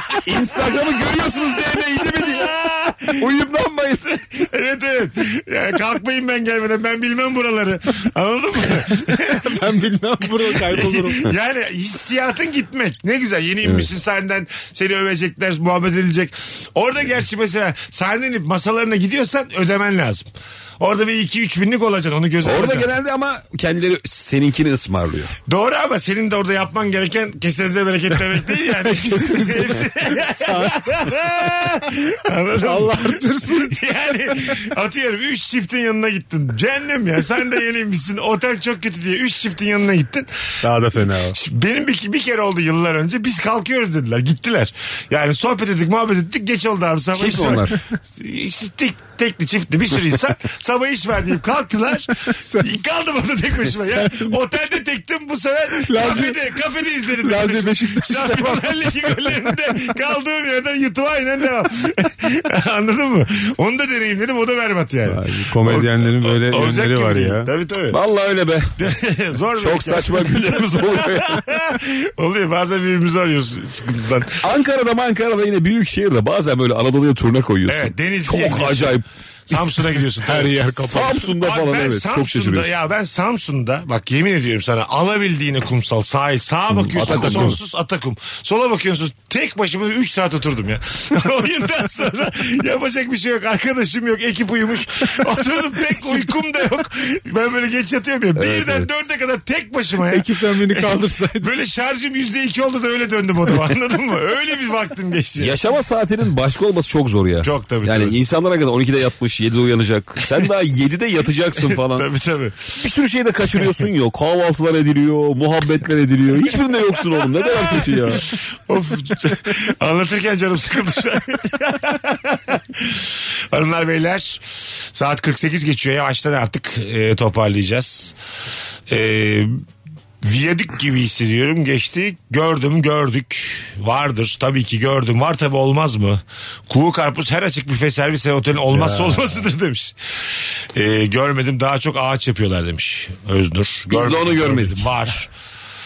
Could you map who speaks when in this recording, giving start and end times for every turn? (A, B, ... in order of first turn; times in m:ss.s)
0:00.2-0:02.5 A
0:02.0-0:03.3 B
0:03.2-0:04.2 A
0:04.3-0:09.7 B
0:09.4-0:11.3 C
0:10.5-0:20.3 B
0:13.6-0:13.9 A
0:20.8-0:22.9 B
0:22.4-0:25.4 A
0:25.5-0:40.3 B
0:28.9-0:30.8 C
0:32.6-0:33.8 C
0:40.6-0:41.4 C
0:41.3-1:08.0 B
0:47.1-0:47.8 A
0:52.3-0:52.7 C
0:53.7-0:54.3 C
0:55.8-0:56.4 C
0:57.2-0:58.7 C
1:05.1-1:07.5 C
1:07.9-1:08.8 A
1:08.8-1:14.4 B
1:09.6-1:11.4 A
1:14.4-1:19.7 A
1:17.7-1:45.6 B
1:20.3-1:21.0 C
1:20.3-1:22.7 A
1:26.7-1:27.6 A
1:27.2-1:27.5 C
1:38.4-1:38.9 A
1:40.0-1:41.5 C
1:45.4-1:52.1 A
1:47.4-1:48.2 B
1:51.6-1:52.7 B
1:52.7-1:58.2 A
1:57.4-2:08.2 B
2:08.9-2:09.6 B
2:10.2-2:20.0 B
2:18.7-2:19.4 C
2:20.8-2:25.3 B
2:23.9-2:24.9 A